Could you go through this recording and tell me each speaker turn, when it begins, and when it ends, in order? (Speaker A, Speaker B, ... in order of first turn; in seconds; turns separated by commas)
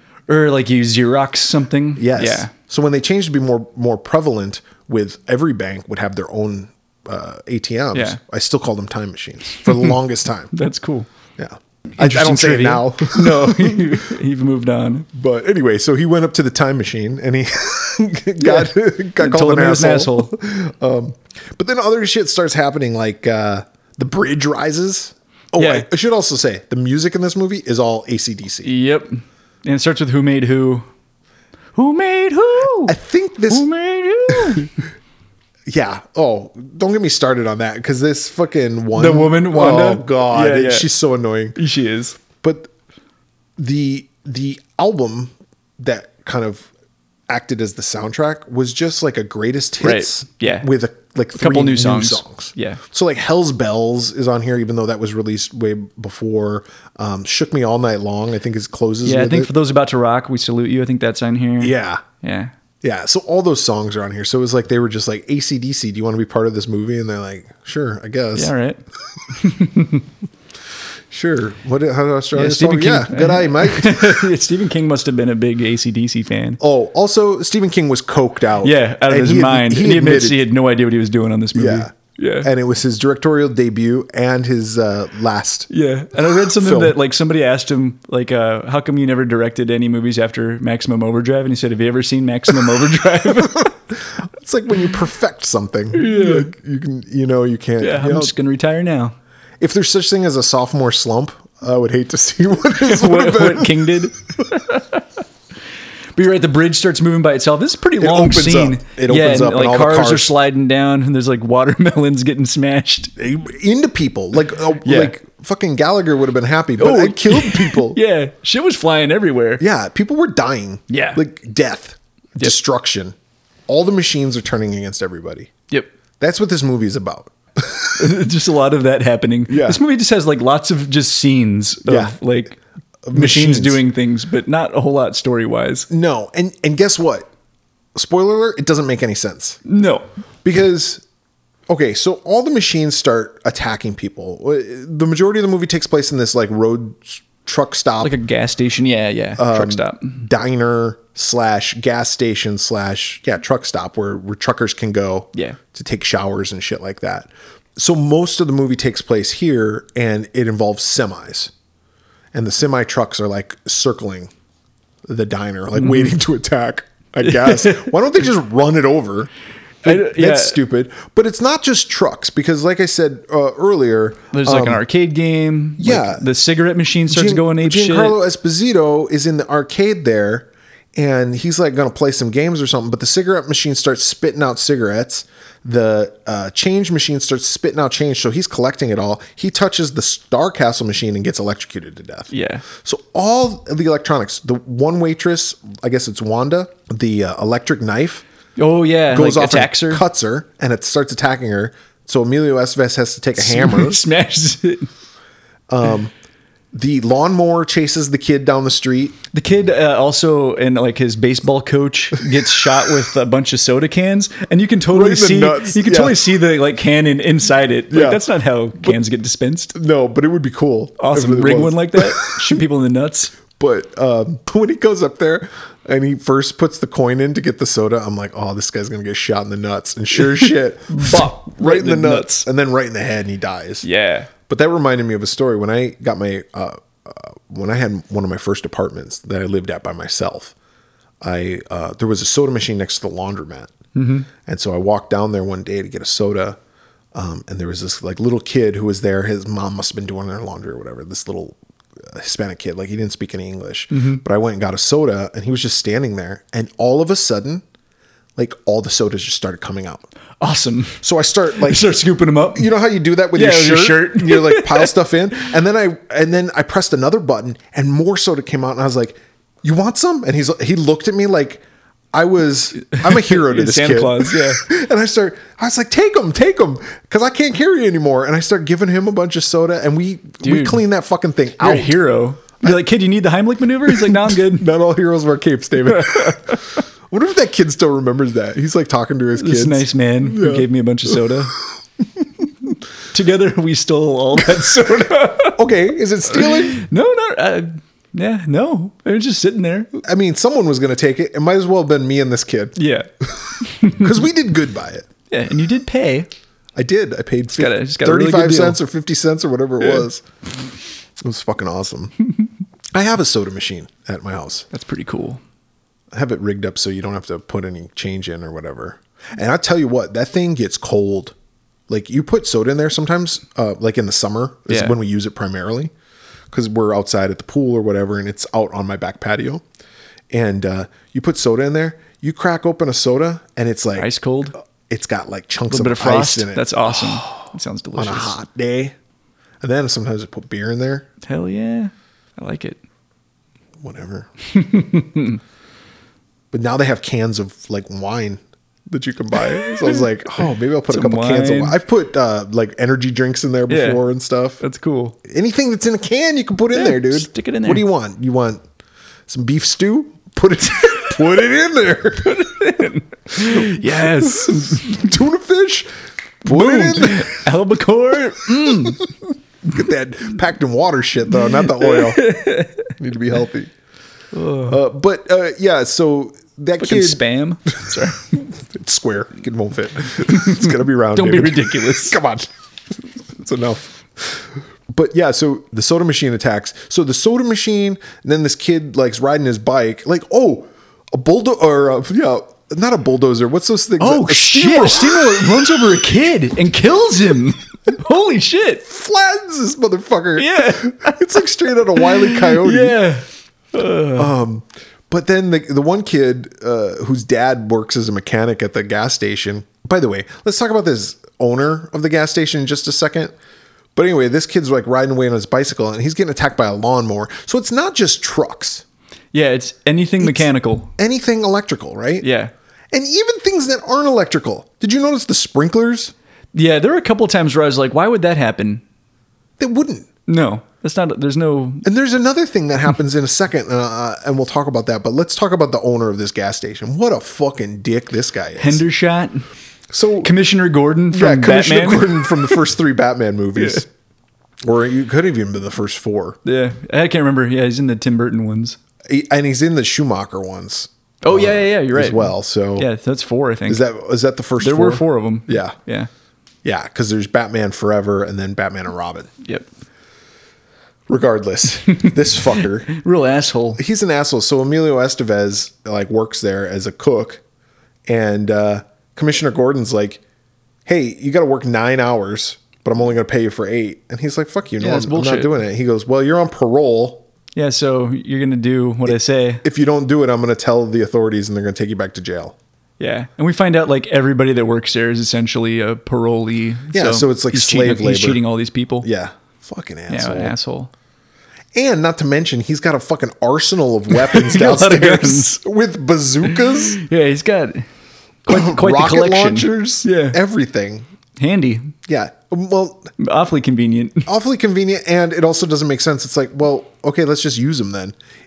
Speaker A: 0.3-2.5, Speaker B: 2.0-10.5, Speaker A: 7.9-8.2, Speaker A: 9.7-9.9, Speaker A: 10.5-11.1, Speaker B: 11.4-14.2, Speaker A: 12.0-15.1, Speaker B: 15.1-28.7, Speaker A: 18.4-20.3, Speaker A: 25.6-25.9, Speaker A: 28.6-30.9, Speaker A: 31.8-33.0, Speaker B: 32.9-33.7, Speaker A: 33.5-34.7, Speaker B: 34.3-34.7, Speaker B: 35.7-41.6, Speaker A: 38.9-40.9, Speaker A: 41.6-42.2, Speaker B: 42.4-42.7, Speaker B: 43.6-46.7, Speaker B: 47.3-59.5, Speaker A: 49.8-50.7, Speaker A: 51.4-52.8, Speaker A: 59.0-62.5, Speaker B: 61.6-62.0, Speaker B: 62.8-68.5, Speaker A: 68.3-70.1, Speaker B: 71.1-74.3, Speaker A: 72.3-76.6, Speaker B: 76.6-80.4, Speaker A: 78.6-82.5, Speaker B: 81.5-81.9, Speaker B: 82.4-85.7, Speaker A: 85.7-93.8, Speaker B: 86.4-87.0, Speaker B: 93.3-98.3, Speaker A: 95.9-96.5, Speaker A: 97.8-99.2, Speaker B: 99.6-104.0, Speaker A: 102.8-105.0, Speaker A: 106.2-113.1, Speaker B: 108.0-110.3, Speaker B: 113.2-118.0, Speaker A: 114.8-115.2, Speaker A: 116.8-119.6, Speaker B: 119.6-123.2, Speaker A: 120.9-121.2, Speaker B: 123.7-125.5, Speaker B: 126.2-128.2, Speaker A: 128.0-132.6, Speaker B: 129.5-129.8, Speaker B: 131.9-132.2, Speaker B: 133.1-133.8, Speaker A: 133.1-135.9, Speaker B: 135.9-137.3, Speaker B: 137.9-139.6, Speaker A: 139.7-140.1, Speaker B: 140.4-141.0, Speaker B: 141.7-148.2, Speaker A: 148.0-150.2, Speaker B: 149.4-161.5, Speaker B: 162.3-164.3, Speaker B: 165.1-169.3, Speaker A: 165.8-166.1, Speaker A: 167.2-167.9, Speaker B: 169.8-174.8, Speaker A: 169.8-170.6, Speaker A: 174.3-178.2, Speaker B: 175.8-176.3, Speaker B: 177.1-198.2, Speaker A: 192.3-192.6, Speaker A: 198.6-200.0, Speaker B: 199.1-204.0, Speaker A: 203.4-204.9, Speaker B: 205.7-206.1, Speaker B: 206.7-209.2, Speaker A: 209.3-219.8, Speaker B: 214.9-216.2, Speaker B: 217.9-218.2, Speaker B: 219.7-222.6, Speaker A: 221.0-223.3, Speaker B: 223.6-233.8, Speaker A: 230.2-232.5, Speaker A: 233.8-234.3, Speaker B: 234.5-240.5, Speaker B: 241.2-243.7, Speaker A: 243.9-244.3, Speaker B: 244.4-246.6, Speaker B: 247.1-257.6, Speaker A: 253.9-254.2, Speaker B: 258.4-260.1, Speaker A: 260.4-261.0, Speaker B: 261.0-262.0, Speaker A: 261.6-262.7, Speaker B: 262.5-282.0, Speaker A: 263.3-264.9, Speaker A: 272.9-274.6, Speaker A: 280.4-280.8, Speaker A: 281.6-284.7, Speaker B: 283.9-291.3, Speaker A: 285.9-286.6, Speaker A: 289.4-291.5, Speaker A: 293.1-295.6, Speaker B: 294.8-296.8, Speaker A: 296.3-299.9, Speaker B: 300.0-302.8, Speaker A: 302.8-303.1, Speaker A: 303.6-304.2, Speaker B: 303.8-305.1, Speaker A: 305.3-306.3, Speaker B: 306.8-310.2, Speaker A: 307.5-308.8, Speaker B: 311.2-312.1, Speaker B: 312.9-314.7, Speaker A: 314.7-315.4, Speaker B: 316.1-321.4, Speaker B: 321.9-325.9, Speaker A: 324.7-324.9, Speaker B: 326.5-329.6, Speaker B: 330.3-334.1, Speaker A: 334.0-334.6, Speaker B: 334.9-337.3, Speaker A: 335.7-338.4, Speaker B: 337.9-338.9, Speaker B: 339.6-341.1, Speaker A: 341.2-342.8, Speaker B: 343.8-344.3, Speaker A: 344.5-345.4, Speaker B: 346.5-354.6, Speaker A: 349.6-350.0, Speaker A: 350.9-351.8, Speaker A: 353.7-354.0, Speaker A: 354.6-355.2, Speaker B: 355.2-358.6, Speaker A: 356.7-357.8, Speaker B: 359.3-362.8, Speaker A: 362.2-365.1, Speaker B: 363.4-365.9, Speaker B: 366.4-367.5, Speaker A: 366.5-369.1, Speaker B: 368.6-369.1, Speaker B: 369.6-372.3, Speaker A: 371.6-372.9, Speaker B: 372.9-373.7, Speaker A: 374.3-374.8, Speaker B: 374.7-377.2, Speaker A: 376.8-378.3, Speaker B: 378.3-382.5, Speaker A: 380.2-382.2, Speaker B: 383.3-395.6, Speaker A: 394.0-398.8, Speaker B: 398.9-403.0, Speaker A: 400.4-401.3, Speaker A: 401.9-404.3, Speaker B: 404.2-413.3, Speaker B: 413.9-418.8, Speaker A: 419.3-420.9, Speaker B: 420.2-422.3, Speaker A: 422.2-422.5, Speaker B: 422.9-426.1, Speaker A: 426.5-428.8, Speaker B: 429.6-430.1, Speaker A: 430.3-431.9, Speaker B: 431.8-438.8, Speaker A: 438.6-439.5, Speaker B: 439.9-440.3, Speaker A: 440.2-442.6, Speaker B: 441.1-443.9, Speaker A: 443.6-443.8, Speaker B: 444.6-446.4, Speaker A: 446.4-448.8, Speaker B: 449.1-452.9, Speaker A: 451.2-453.9, Speaker B: 453.7-455.8, Speaker A: 454.6-456.1, Speaker B: 456.6-459.3, Speaker B: 461.1-462.9, Speaker A: 462.9-463.8, Speaker B: 463.8-467.4, Speaker B: 468.1-470.2, Speaker B: 470.9-477.3, Speaker A: 474.8-475.6, Speaker A: 477.6-479.6, Speaker B: 479.1-482.6, Speaker A: 483.0-489.1, Speaker B: 486.9-488.4, Speaker B: 489.0-490.5, Speaker A: 490.1-490.9, Speaker B: 491.7-497.0, Speaker A: 494.1-495.6, Speaker A: 496.5-497.9, Speaker A: 498.5-500.4, Speaker B: 498.5-501.1, Speaker A: 501.4-501.9, Speaker B: 502.1-503.1, Speaker A: 503.2-504.3, Speaker B: 504.3-508.2